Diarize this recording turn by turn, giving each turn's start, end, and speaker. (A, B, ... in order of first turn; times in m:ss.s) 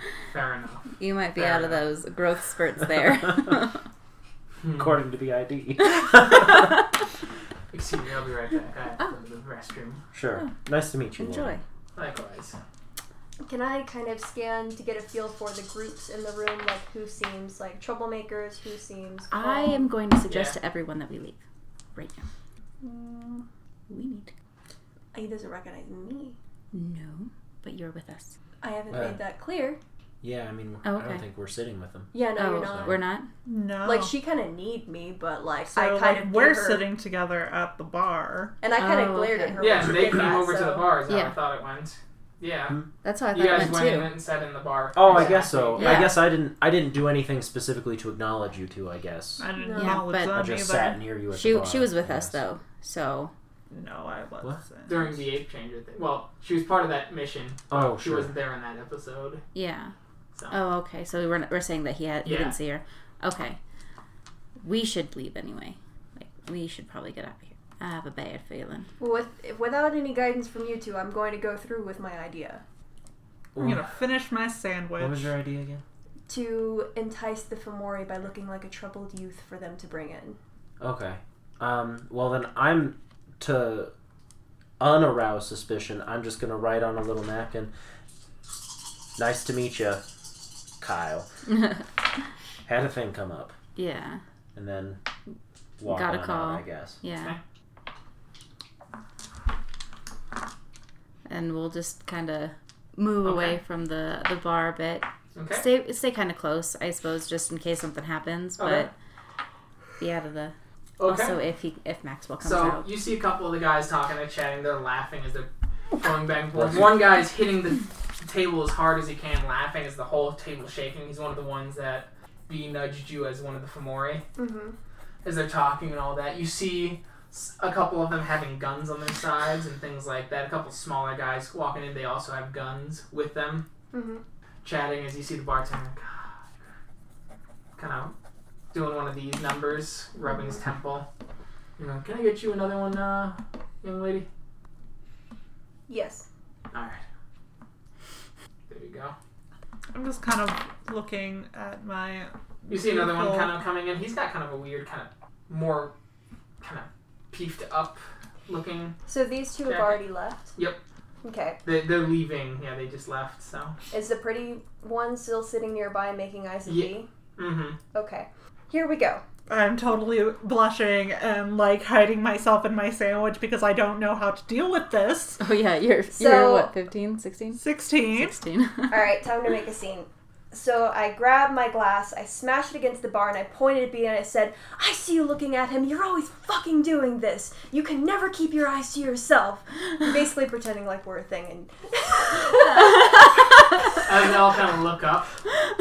0:00.3-0:01.8 A
0:01.0-0:03.8 B
0:04.6-0:05.0 A
0:04.7-0:06.7 C
0:06.2-0:06.7 B
0:07.7-0:10.0 A
0:10.1-0:11.6 C
0:11.2-0:11.6 B
0:11.9-0:12.6 A
0:13.4-0:19.9 D
0:19.3-0:21.4 B
0:20.3-0:20.6 A
0:21.9-0:22.2 B
0:22.8-0:23.4 D
0:23.9-0:24.3 B
0:25.1-0:26.4 D
0:26.7-0:28.4 B
0:28.6-0:29.8 D
0:28.9-0:29.2 C
0:30.2-0:32.1 C
0:30.8-0:31.2 B
0:32.1-0:33.0 D
0:32.3-0:33.3 B
0:32.6-0:33.0 C
0:33.4-0:34.1 E
0:33.8-0:36.9 D
0:35.7-0:38.6 E
0:38.6-0:40.9 D
0:38.8-0:39.8 B
0:39.6-0:42.8 A
0:41.1-0:41.4 B
0:43.0-0:44.1 B
0:43.3-0:46.1 A
0:44.9-0:49.4 C
0:45.1-0:46.2 B
0:49.4-0:51.0 E
0:49.6-0:50.0 D
0:49.7-0:50.4 B
0:50.2-0:52.4 C
0:51.3-0:53.3 B
0:53.7-0:55.1 E
0:54.8-0:59.4 A
0:57.7-0:58.3 C
0:59.5-0:59.9 B
1:00.5-1:03.6 B
1:02.2-1:02.6 A
1:04.6-1:08.9 B
1:09.0-1:12.6 D
1:13.6-1:13.8 C
1:13.6-1:15.3 E
1:15.0-1:15.8 C
1:16.3-1:20.4 D
1:20.8-1:23.9 C
1:24.8-1:27.7 C
1:29.2-1:30.0 C
1:30.8-1:31.3 C
1:31.5-1:31.8 B
1:32.6-1:33.6 C
1:33.8-1:34.2 B
1:34.6-1:35.0 C
1:35.8-1:37.0 C
1:35.9-1:37.4 B
1:41.3-1:48.9 B
1:43.2-1:43.6 A
1:45.4-1:45.6 A
1:48.6-1:48.9 A
1:50.0-1:52.9 B
1:51.0-1:51.4 A
1:52.4-2:04.2 A
1:56.6-1:57.0 C
2:04.4-2:04.8 D
2:05.2-2:13.7 A
2:13.9-2:14.2 D
2:14.6-2:16.3 A
2:17.8-2:18.1 A
2:18.7-2:21.1 A
2:21.8-2:24.3 A
2:25.9-2:26.2 D
2:26.7-2:27.0 A
2:28.7-2:29.1 A
2:29.9-2:33.5 E
2:32.7-2:35.9 A
2:36.6-2:39.0 A
2:39.1-2:40.6 D
2:39.6-2:40.8 A
2:41.2-2:41.6 D
2:41.6-2:43.8 A
2:43.9-2:47.1 D
2:46.6-2:47.8 A
2:47.9-2:49.2 D
2:49.5-2:55.4 E
2:55.4-2:59.1 B
2:56.1-2:56.7 D
2:57.6-2:58.4 E
2:58.9-3:13.3 D
3:14.0-3:15.3 A